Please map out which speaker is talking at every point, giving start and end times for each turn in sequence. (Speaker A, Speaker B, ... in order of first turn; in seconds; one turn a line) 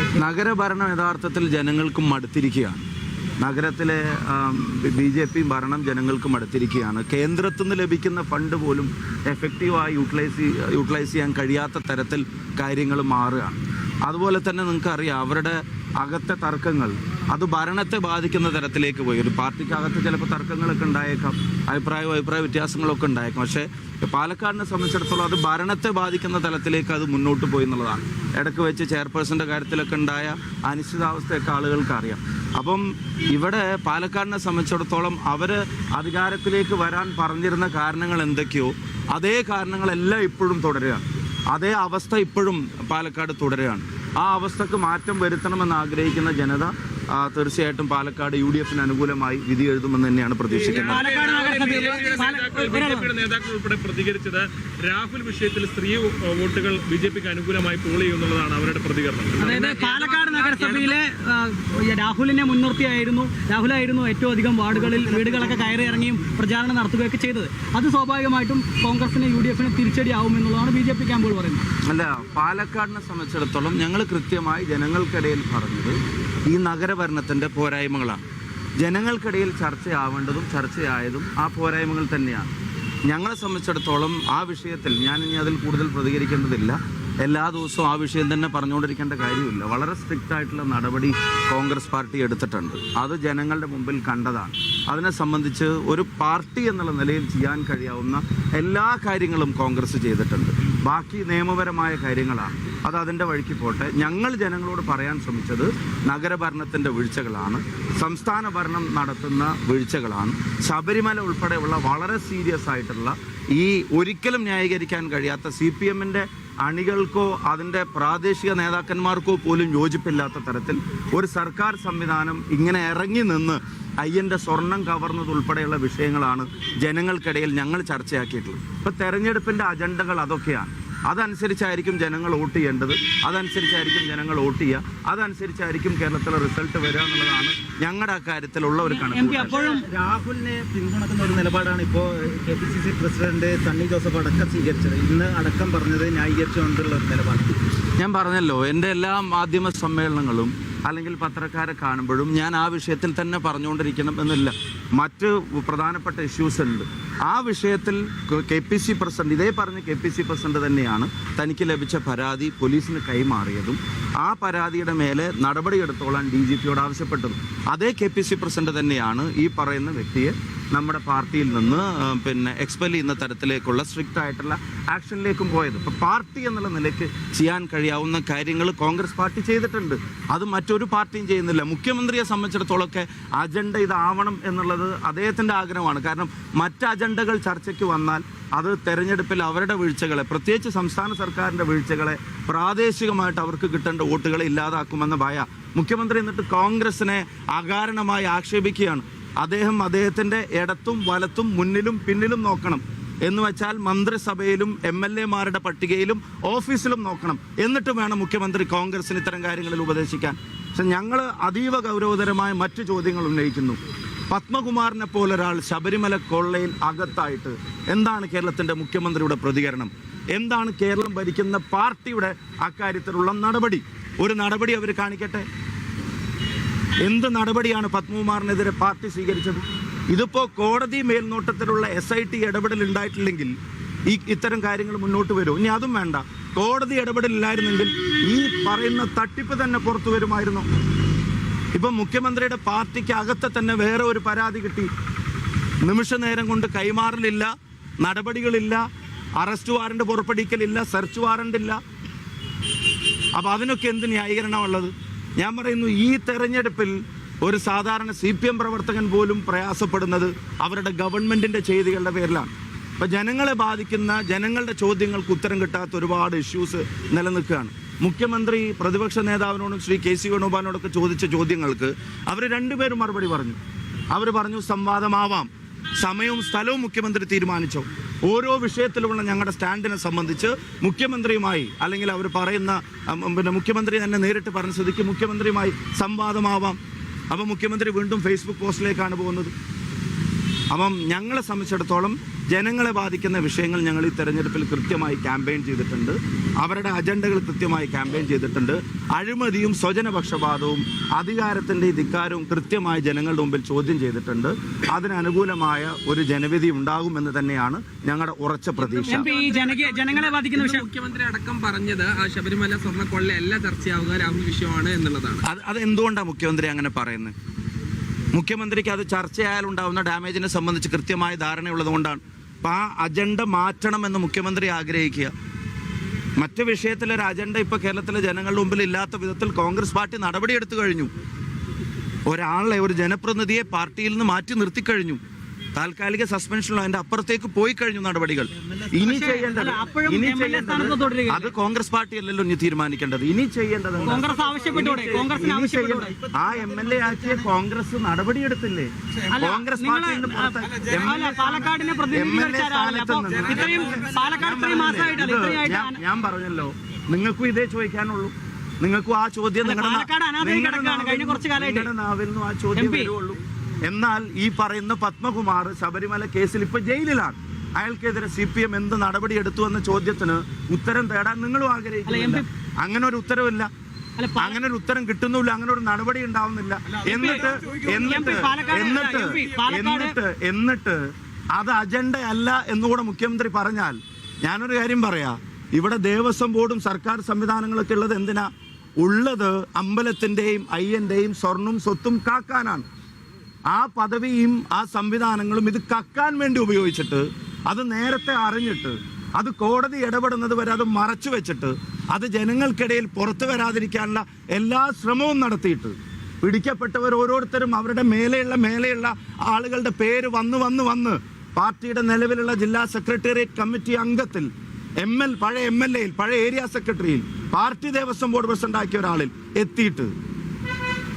Speaker A: 0.1-2.8
Speaker A: 3.4-51.1
Speaker B: 50.5-59.7
Speaker C: 50.7-53.1
Speaker C: 59.4-71.6
Speaker D: 59.5-61.0
Speaker E: 65.0-65.8
Speaker A: 71.8-78.2
Speaker A: 78.8-82.5
Speaker A: 83.0-139.6
Speaker C: 138.9-139.9
Speaker E: 139.4-147.5
Speaker A: 148.0-213.8
Speaker A: 214.3-225.5
Speaker A: 227.0-233.5
Speaker A: 234.1-240.7
Speaker A: 241.7-244.9
Speaker A: 245.8-248.8
Speaker A: 249.4-251.8
Speaker A: 253.3-273.6
Speaker A: 274.1-286.8
Speaker A: 287.3-289.5
Speaker A: 290.7-309.3
Speaker D: 308.8-315.4
Speaker C: 309.0-310.9
Speaker A: 315.4-317.3
Speaker A: 318.3-325.3
Speaker A: 326.4-331.1
Speaker A: 332.2-335.2
Speaker A: 335.7-373.7
Speaker E: 338.7-339.7
Speaker C: 339.0-341.5
Speaker C: 344.0-346.1
Speaker E: 344.2-347.5
Speaker C: 349.3-356.0
Speaker E: 350.7-351.1
Speaker E: 353.6-355.1
Speaker C: 359.6-361.9
Speaker C: 362.7-363.1
Speaker C: 372.1-372.4
Speaker C: 374.2-374.6
Speaker A: 374.3-381.0
Speaker C: 377.1-380.1
Speaker A: 381.5-388.5
Speaker A: 389.0-392.8
Speaker A: 393.7-420.1